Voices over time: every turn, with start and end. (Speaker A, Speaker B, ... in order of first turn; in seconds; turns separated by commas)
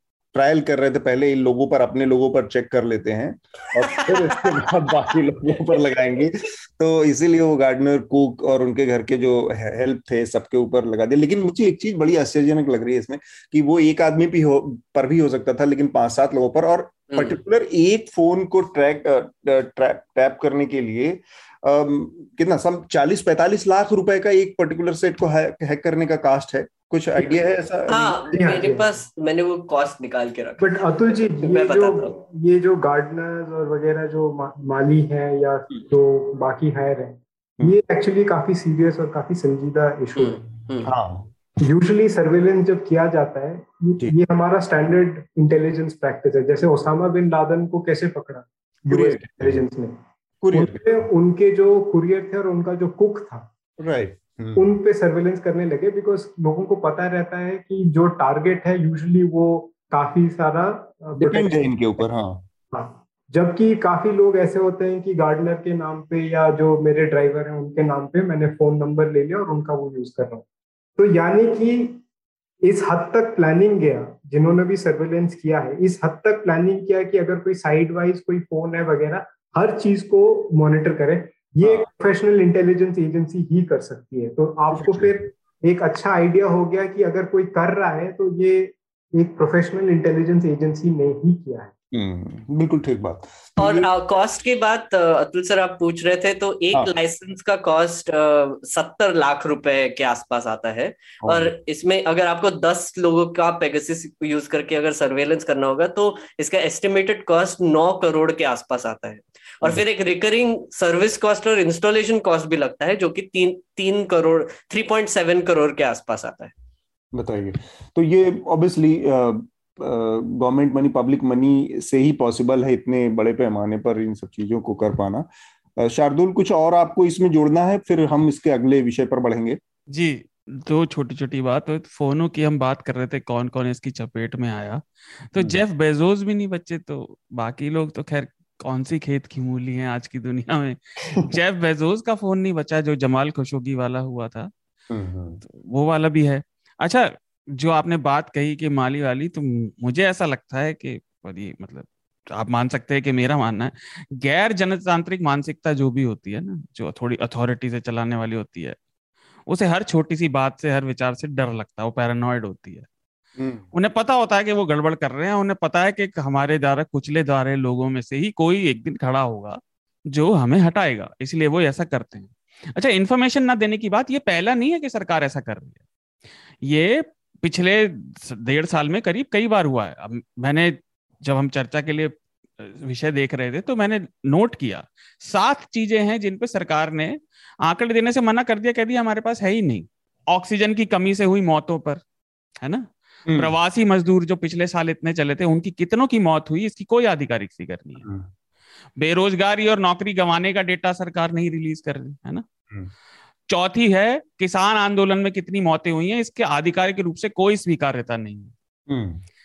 Speaker A: 0.3-28.3, Speaker B: 3.8-4.7, Speaker B: 27.9-32.1, Speaker C: 28.3-28.9, Speaker C: 30.6-40.4, Speaker B: 40.2-40.9, Speaker A: 40.9-41.3, Speaker C: 41.6-50.0, Speaker A: 48.9-49.6, Speaker A: 50.4-50.8, Speaker C: 50.5-53.5, Speaker A: 53.8-54.6, Speaker C: 54.5-61.7, Speaker A: 61.2-62.4, Speaker C: 62.7-70.5, Speaker C: 71.0-72.0, Speaker C: 72.6-91.7, Speaker A: 84.7-85.2, Speaker A: 91.9-93.9, Speaker B: 93.6-116.5, Speaker A: 101.2-101.5, Speaker A: 117.1-125.3, Speaker A: 125.8-129.6, Speaker D: 129.9-144.5, Speaker A: 135.4-135.6, Speaker A: 144.9-145.4, Speaker D: 145.5-158.8, Speaker D: 159.5-162.9, Speaker A: 163.4-163.7, Speaker D: 163.7-175.8, Speaker D: 176.6-192.0, Speaker D: 192.6-198.1, Speaker A: 193.3-193.5, Speaker D: 199.0-202.4, Speaker D: 203.5-208.5, Speaker A: 208.9-209.2